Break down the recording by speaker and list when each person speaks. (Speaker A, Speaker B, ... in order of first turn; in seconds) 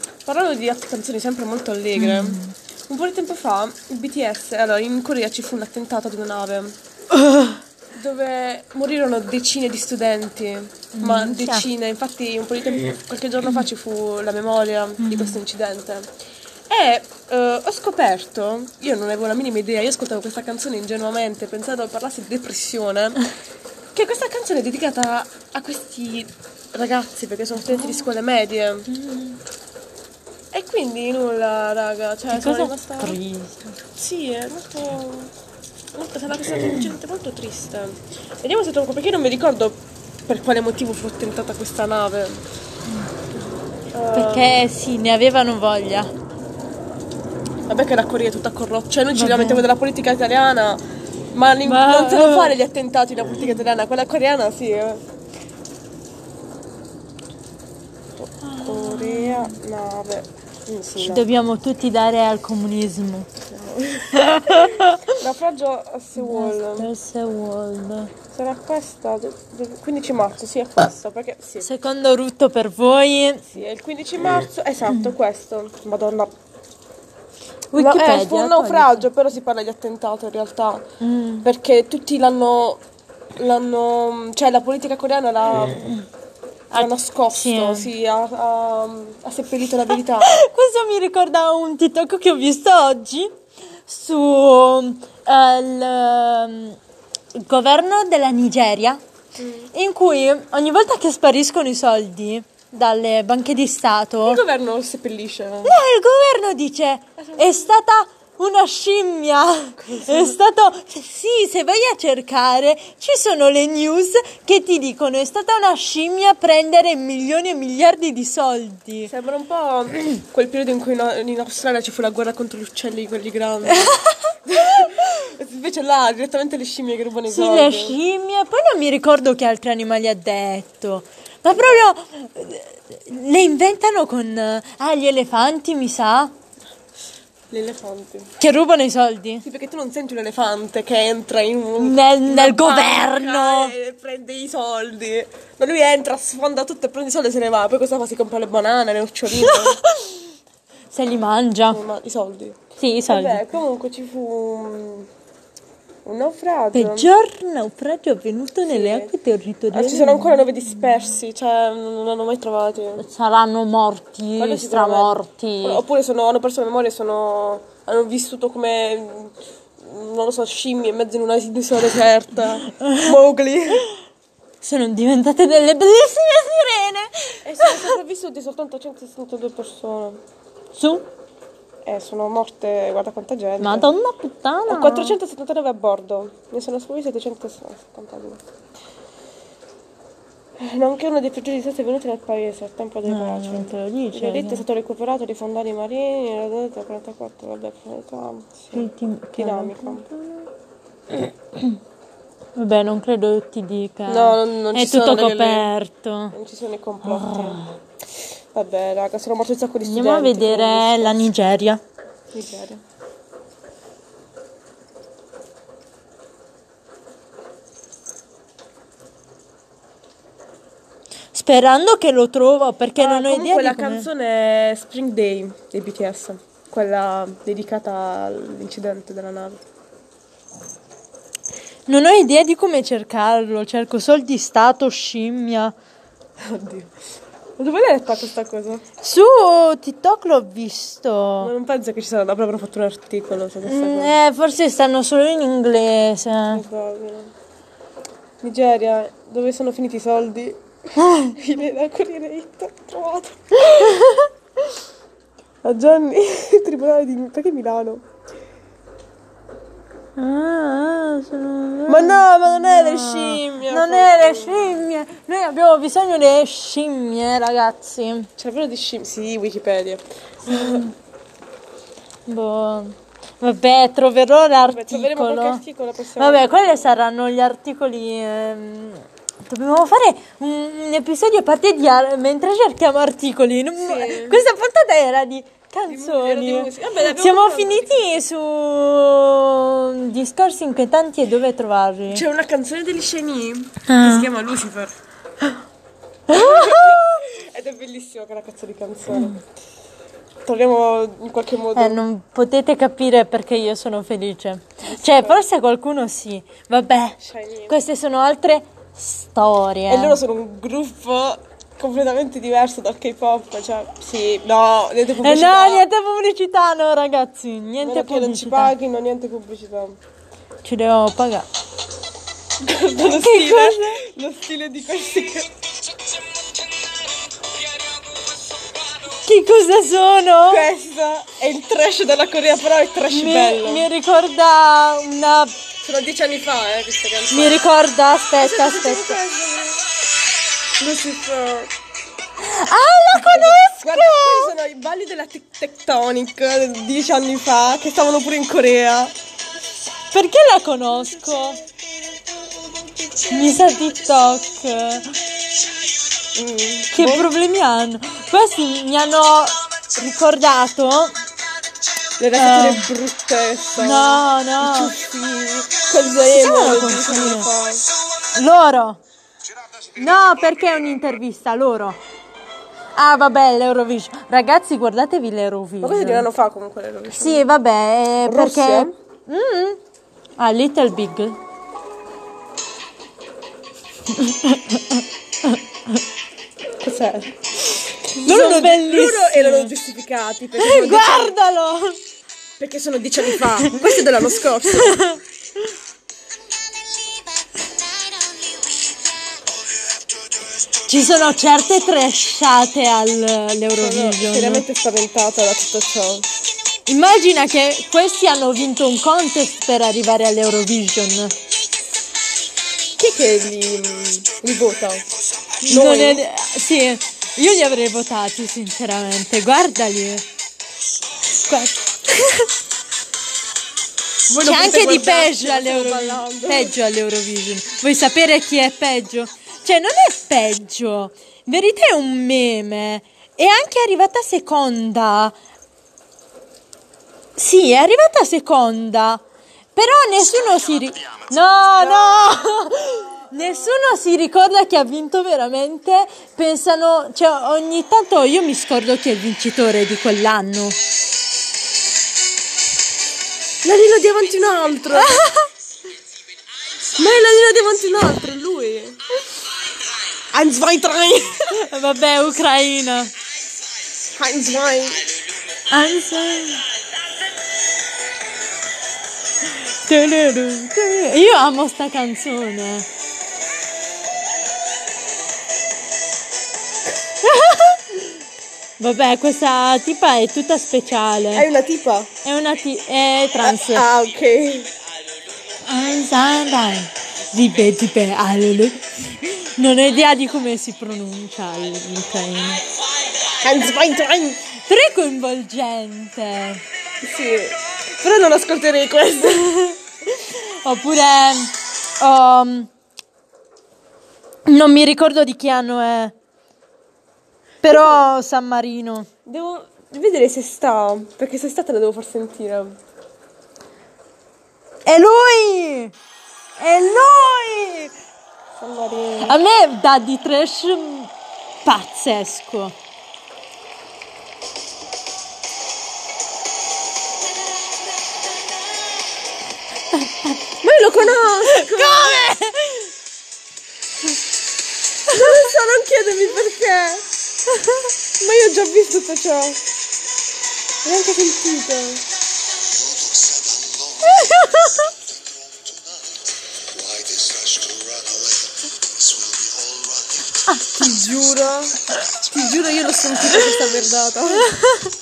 Speaker A: 0.3-6.8, 7.9-16.1, 16.7-23.2, 23.9-28.9, 30.5-33.2, 34.0-35.3, 36.0-42.4, 43.9-44.6, 47.7-55.0, 58.2-61.2, 63.5-66.9, 68.3-71.7, 73.5-76.3, 77.8-80.8, 81.4-82.8, 83.4-85.9, 86.7-90.4, 99.4-99.7, 104.2-105.8, 107.2-107.6, 109.8-110.4, 119.1-128.0, 131.6-131.9, 137.5-138.3, 139.4-149.8, 151.7-155.1, 156.1-157.1, 158.7-159.1, 159.7-163.0, 164.4-173.9, 177.4-180.2, 181.9-183.9, 184.7-188.4, 190.6-200.1, 204.1-205.7, 206.3-207.6, 208.5-211.3, 212.3-212.8, 223.0-229.6, 236.4-236.9, 237.6-238.8, 241.4-244.2, 246.5-247.3, 248.4-250.6, 251.3-254.0, 255.6-258.0, 261.9-264.8, 268.4-270.9, 274.7-276.9, 283.8-284.4, 285.9-288.2, 292.1-294.9, 296.3-299.4, 300.5-302.0, 304.9-305.4, 307.2-307.8, 309.9-315.9, 317.8-320.0, 322.6-325.5, 330.5-333.9, 335.8-337.6, 338.4-339.8, 340.8-341.7, 343.1-349.1, 353.1-353.3, 356.4-357.3, 362.2-367.8, 375.8-377.4, 378.2-378.9, 386.8-387.3, 388.2-391.3, 392.6-395.0, 403.8-406.3, 413.0-415.1, 415.6-416.2, 424.3-426.7, 453.6-455.2, 457.0-459.0, 460.3-461.5, 464.2-465.0, 481.3-482.1, 483.4-484.7, 493.3-494.4, 497.0-499.5, 507.6-508.1, 509.3-512.8, 518.6-519.4, 530.6-532.2, 535.1-537.0, 538.2-539.6, 540.9-542.0, 550.7-554.5
Speaker B: 2.0-2.5, 7.1-7.6, 10.9-11.7, 15.0-15.4, 28.9-29.4, 32.3-33.8, 44.1-46.1, 49.1-49.6, 51.6-52.5, 58.4-59.5, 61.0-63.3, 64.1-65.2, 66.2-68.1, 71.6-73.4, 77.7-79.1, 81.0-81.5, 86.7-87.9, 90.2-93.3, 93.9-96.8, 97.3-99.0, 99.7-104.4, 105.7-119.1, 123.7-124.3, 127.3-136.3, 138.4-139.4, 141.8-143.7, 149.3-150.2, 150.9-151.8, 152.8-153.4, 156.7-160.4, 163.0-165.8, 172.7-173.1, 174.6-177.9, 180.8-181.1, 183.6-185.2, 193.1-194.6, 198.7-200.4, 201.1-201.8, 202.6-206.3, 207.1-207.8, 209.9-211.8, 221.3-224.1, 231.9-235.7, 239.0-241.5, 243.7-246.6, 251.0-251.3, 253.7-254.3, 260.2-268.3, 270.5-270.9, 272.3-275.6, 276.2-292.2, 293.9-294.3, 296.3-297.1, 299.1-299.4, 301.8-307.2, 307.7-310.2, 315.2-318.7, 320.6-321.5, 323.1-324.0, 329.2-330.6, 333.1-335.5, 337.3-339.2, 342.4-344.5, 350.1-351.6, 353.3-355.1, 356.9-361.2, 362.4-362.9, 363.8-364.9, 366.3-367.5, 368.4-369.0, 369.9-372.0, 373.0-376.2, 377.1-379.8, 380.4-381.4, 384.1-386.0, 388.2-389.7, 390.6-392.0, 393.3-393.9, 394.7-395.2, 400.9-404.6, 406.9-411.4, 415.6-420.2, 421.5-422.5, 424.4-435.4, 437.4-439.2, 439.8-450.8, 455.0-455.4, 461.5-463.1, 465.7-466.6, 469.7-472.9, 477.2-478.0, 478.8-481.5, 482.2-483.9, 485.6-492.6, 494.7-496.6, 499.3-502.7, 504.5-506.1, 507.6-509.1, 514.9-515.9, 516.6-517.9, 519.2-521.1, 521.6-522.8, 529.9-530.4, 531.5-532.9, 537.6-537.8, 544.0-544.9, 554.4-554.9
Speaker C: 542.9-544.3, 546.7-550.2